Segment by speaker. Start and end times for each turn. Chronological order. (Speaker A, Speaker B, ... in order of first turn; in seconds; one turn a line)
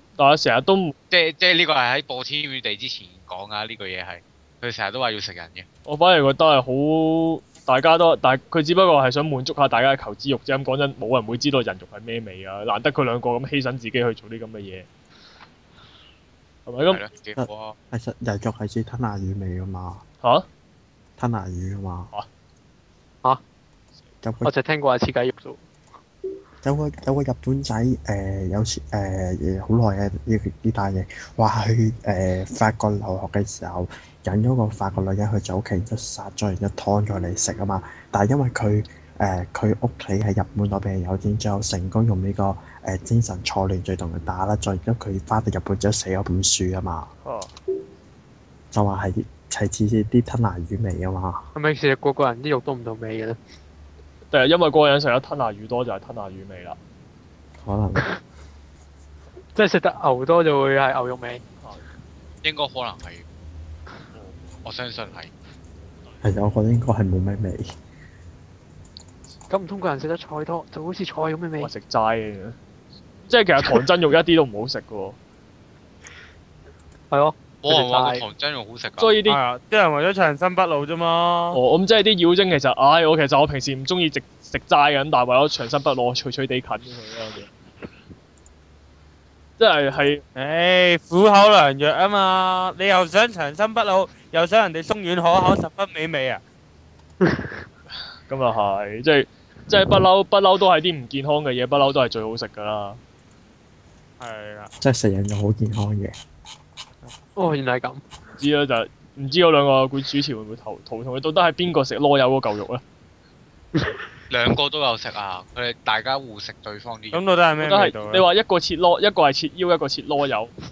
Speaker A: 0.2-0.9
Speaker B: 1.1-5.7
Speaker A: 5.8-14.9
Speaker A: 16.6-17.0
Speaker B: 16.9-17.8
Speaker C: 17.4-20.0
Speaker A: 20.2-20.5
Speaker C: 21.2-22.1
Speaker C: 24.2-24.5
Speaker D: 24.4-25.6
Speaker C: 26.6-47.1
Speaker A: 47.2-47.5
Speaker C: 48.7-51.4
Speaker D: 51.5-53.4
Speaker A: 54.3-56.8
Speaker C: 57.6-58.0
Speaker D: 59.5-61.4
Speaker B: 62.4-63.2
Speaker A: 64.1-64.5
Speaker B: 64.6-65.3
Speaker C: 66.2-67.7
Speaker D: 69.5-71.7
Speaker A: 71.6-72.6
Speaker A: 73.2-75.2
Speaker D: 77.1-78.2
Speaker B: 77.6-79.1
Speaker A: 79.0-79.4
Speaker E: 79.3-81.6
Speaker A: 81.5-87.5
Speaker A: 89.6-90.2
Speaker E: 90.3-96.4
Speaker A: 98.3-103.0
Speaker E: 104.2-104.7
Speaker C: 104.8-106.1
Speaker D: 107.3-108.0
Speaker A: 108.3-112.8
Speaker B: 114.3-117.2
Speaker E: 117.1-118.2
Speaker A: 117.6-120.5